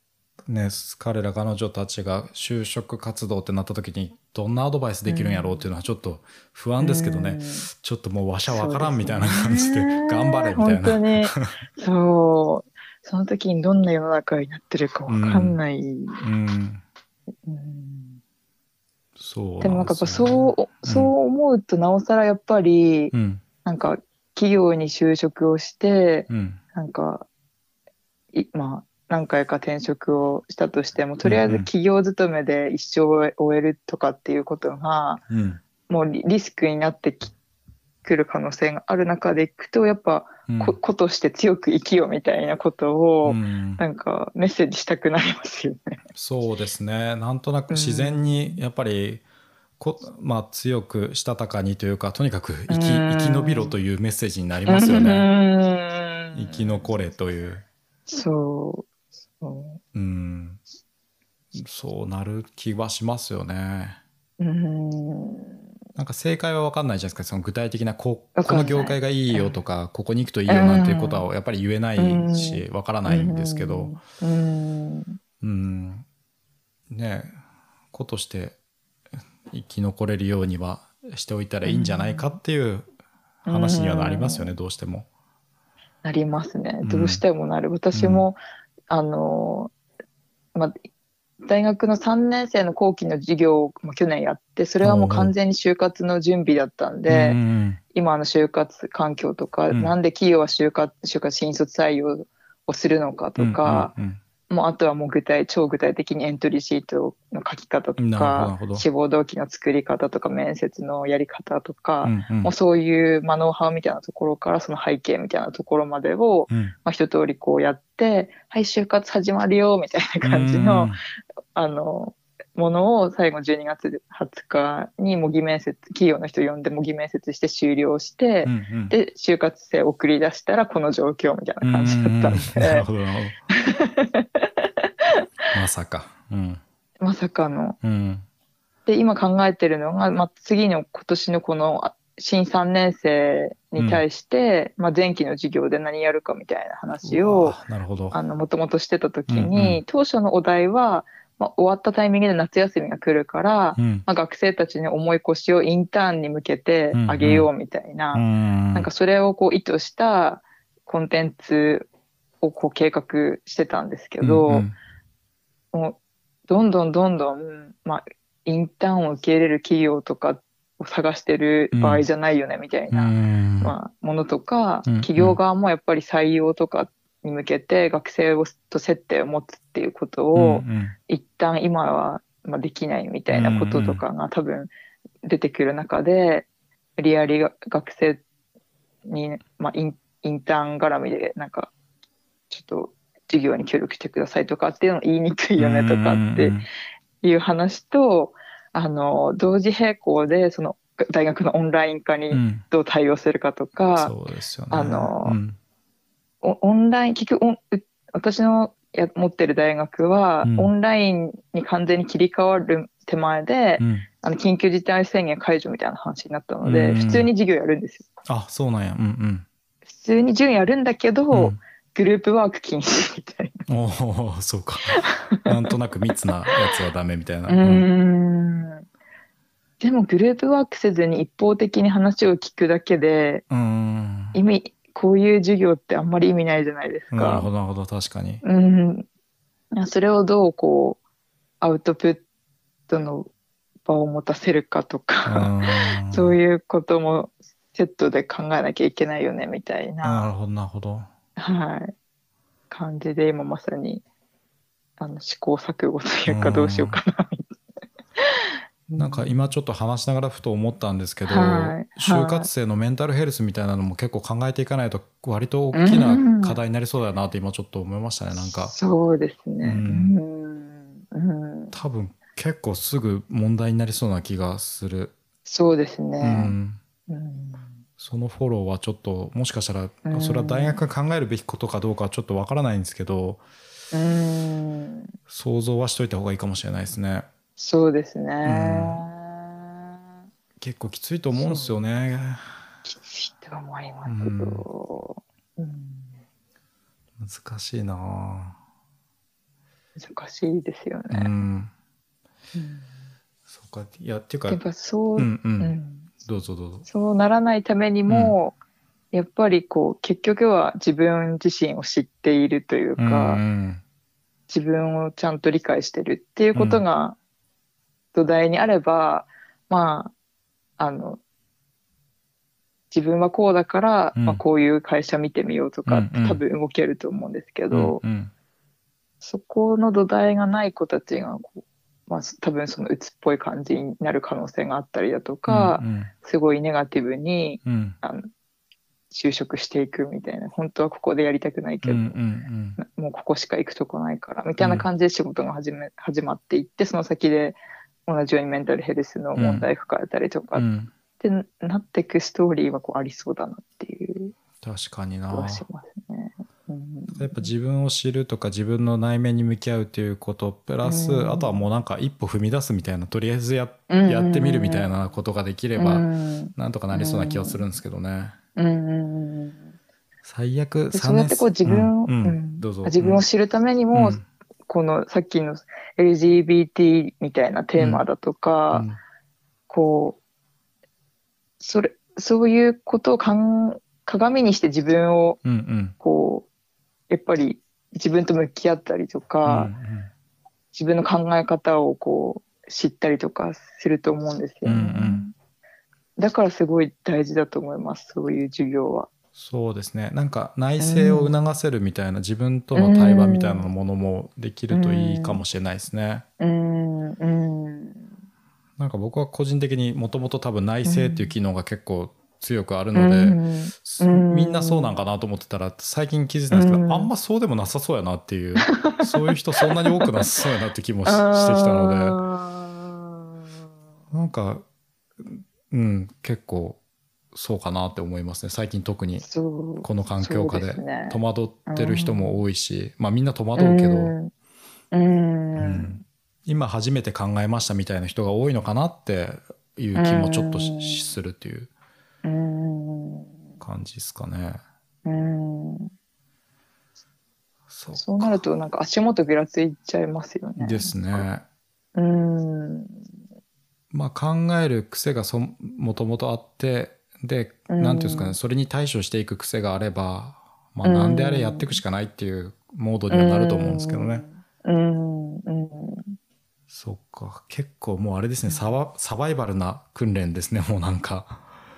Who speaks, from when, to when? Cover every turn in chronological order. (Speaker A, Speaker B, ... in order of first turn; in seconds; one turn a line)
Speaker A: 0.4-11.5
Speaker B: 5.1-5.7
Speaker B: 6.8-7.7
Speaker B: 8.5-16.2
Speaker A: 15.1-15.6
Speaker A: 16.2-16.8
Speaker B: 17.4-18.2
Speaker A: 19.2-21.1
Speaker B: 19.6-23.1
Speaker A: 23.1-23.4
Speaker B: 23.6-27.2
Speaker A: 26.3-26.6
Speaker B: 28.3-35.2
Speaker A: 31.2-31.7
Speaker A: 35.3-35.6
Speaker B: 35.9-37.3
Speaker B: 38.0-46.0
Speaker A: 40.5-40.8
Speaker A: 43.2-43.8
Speaker A: 46.1-49.2
Speaker B: 47.7-48.6
Speaker A: 49.8-55.3
Speaker B: 52.7-53.8
Speaker B: 54.7-56.9
Speaker A: 56.3-57.6
Speaker B: 58.1-59.8
Speaker A: 59.9-60.6
Speaker A: 61.5-64.0
Speaker B: 64.4-65.6
Speaker A: 66.0-74.0
Speaker B: 68.3-69.6
Speaker B: 70.5-71.3
Speaker B: 72.0-75.2
Speaker A: 75.4-76.0
Speaker A: 76.9-77.4
Speaker A: 77.9-78.5
Speaker A: 79.5-82.9
Speaker B: 81.6-82.4
Speaker A: 83.4-85.1
Speaker B: 83.5-84.5
Speaker B: 86.0-88.4
Speaker A: 86.8-87.2
Speaker A: 87.9-88.3
Speaker B: 88.9-89.7
Speaker B: 91.4-97.4
Speaker A: 94.8-95.3
Speaker A: 97.1-97.8
Speaker B: 97.9-103.9
Speaker A: 99.7-99.9
Speaker A: 103.4-104.2
Speaker B: 104.5-120.9
Speaker A: 108.0-108.8
Speaker A: 112.0-112.5
Speaker A: 116.5-116.7
Speaker A: 120.2-121.0
Speaker B: 121.5-132.8
Speaker A: 128.4-128.9
Speaker A: 131.6-133.4
Speaker B: 133.5-135.1
Speaker A: 135.5-136.6
Speaker B: 137.0-137.8
Speaker A: 137.8-138.2
Speaker B: 138.8-147.6
Speaker A: 143.8-144.0
Speaker A: 147.0-148.2
Speaker B: 148.1-161.9
Speaker A: 149.3-149.8
Speaker A: 153.7-154.1
Speaker A: 156.9-157.5
Speaker A: 158.1-158.9
Speaker B: 162.4-164.7
Speaker A: 164.2-164.7
Speaker B: 165.7-184.7
Speaker A: 171.7-172.0
Speaker A: 172.9-173.7
Speaker A: 174.8-175.4
Speaker A: 180.3-180.9
Speaker A: 183.3-184.0
Speaker B: 185.2-188.2
Speaker B: 189.0-191.7
Speaker B: 192.5-196.6
Speaker A: 195.6-196.6
Speaker B: 197.2-204.1
Speaker A: 202.3-202.6
Speaker A: 203.9-205.6
Speaker B: 204.7-205.4
Speaker B: 206.4-218.1
Speaker A: 210.4-210.7
Speaker A: 213.8-214.1
Speaker A: 216.6-217.3
Speaker A: 218.3-219.4
Speaker B: 219.9-223.6
Speaker A: 221.3-221.6
Speaker A: 223.7-227.9
Speaker B: 225.0-225.6
Speaker B: 227.5-228.8
Speaker B: 229.8-233.4
Speaker A: 233.5-234.4
Speaker B: 234.3-237.5
Speaker A: 237.1-238.4
Speaker B: 238.4-239.1
Speaker B: 239.7-241.0
Speaker B: 241.6-242.2
Speaker B: 242.9-243.3
Speaker B: 243.8-250.3
Speaker A: 245.2-246.4
Speaker A: 250.0-251.1
Speaker B: 251.4-251.9
Speaker B: 252.7-254.0
Speaker B: 255.0-257.5
Speaker A: 256.3-257.0
Speaker B: 258.2-259.3
Speaker A: 259.0-268.7
Speaker B: 261.2-262.5
Speaker B: 265.7-266.6
Speaker B: 268.5-271.8
Speaker A: 269.6-270.1
Speaker A: 271.7-275.1
Speaker B: 275.4-276.5
Speaker A: 276.2-276.8
Speaker B: 277.1-277.7
Speaker A: 278.0-283.4
Speaker B: 280.1-280.8
Speaker B: 283.9-285.1
Speaker A: 285.3-287.2
Speaker B: 287.6-289.8
Speaker A: 288.4-289.0
Speaker A: 290.6-292.6
Speaker B: 291.3-291.8
Speaker B: 292.8-296.2
Speaker A: 294.0-294.6
Speaker A: 297.2-298.6
Speaker B: 300.0-301.3
Speaker A: 301.1-301.7
Speaker B: 302.5-302.9
Speaker A: 303.5-304.6
Speaker B: 304.5-306.1
Speaker A: 305.2-305.7
Speaker A: 306.2-306.9
Speaker B: 306.9-308.6
Speaker A: 308.1-308.4
Speaker B: 309.1-313.4
Speaker A: 313.0-313.8
Speaker B: 314.5-317.2
Speaker A: 316.5-316.8
Speaker B: 318.1-320.1
Speaker B: 320.8-321.2
Speaker B: 322.9-328.0
Speaker A: 324.1-324.4
Speaker A: 325.9-326.4
Speaker A: 327.7-328.3
Speaker B: 329.2-338.3
Speaker A: 335.4-336.1
Speaker A: 337.6-338.0
Speaker B: 339.1-342.2
Speaker A: 341.8-342.8
Speaker B: 342.8-350.6
Speaker A: 344.6-344.9
Speaker A: 349.3-349.7
Speaker A: 350.5-350.9
Speaker B: 351.2-354.3
Speaker A: 354.6-355.6
Speaker B: 355.3-357.5
Speaker A: 357.1-368.4
Speaker B: 360.8-361.7
Speaker B: 363.9-364.9
Speaker B: 365.8-367.6
Speaker B: 368.6-369.7
Speaker A: 370.2-373.2
Speaker B: 370.9-378.9
Speaker A: 373.9-374.2
Speaker A: 377.8-378.0
Speaker A: 378.7-379.0
Speaker B: 379.7-380.2
Speaker B: 381.6-385.4
Speaker A: 385.4-385.9
Speaker B: 386.0-386.5
Speaker B: 387.1-389.7
Speaker A: 389.4-390.1
Speaker B: 390.7-395.3
Speaker A: 394.6-395.2
Speaker B: 396.2-399.1
Speaker A: 399.4-406.2
Speaker B: 400.8-401.3
Speaker B: 402.7-403.7
Speaker B: 404.7-405.4
Speaker B: 406.4-408.1
Speaker A: 408.8-422.2
Speaker B: 410.8-411.3
Speaker B: 412.9-415.0
Speaker B: 416.5-417.1
Speaker B: 418.6-420.1
Speaker B: 421.0-423.5
Speaker A: 424.1-424.6
Speaker A: 425.2-426.8
Speaker A: 427.3-429.2
Speaker B: 429.2-432.4
Speaker A: 429.8-434.1
Speaker B: 433.6-434.3
Speaker B: 434.9-436.0
Speaker A: 435.6-441.7
Speaker B: 439.9-441.1
Speaker B: 442.2-443.4
Speaker A: 443.6-444.6
Speaker B: 445.0-445.9
Speaker A: 447.7-448.4
Speaker B: 448.0-451.2
Speaker A: 450.6-451.4
Speaker B: 451.9-453.0
Speaker A: 453.9-464.2
Speaker B: 457.7-458.4
Speaker B: 460.8-461.8
Speaker B: 463.1-466.2
Speaker A: 466.7-471.4
Speaker B: 468.5-468.7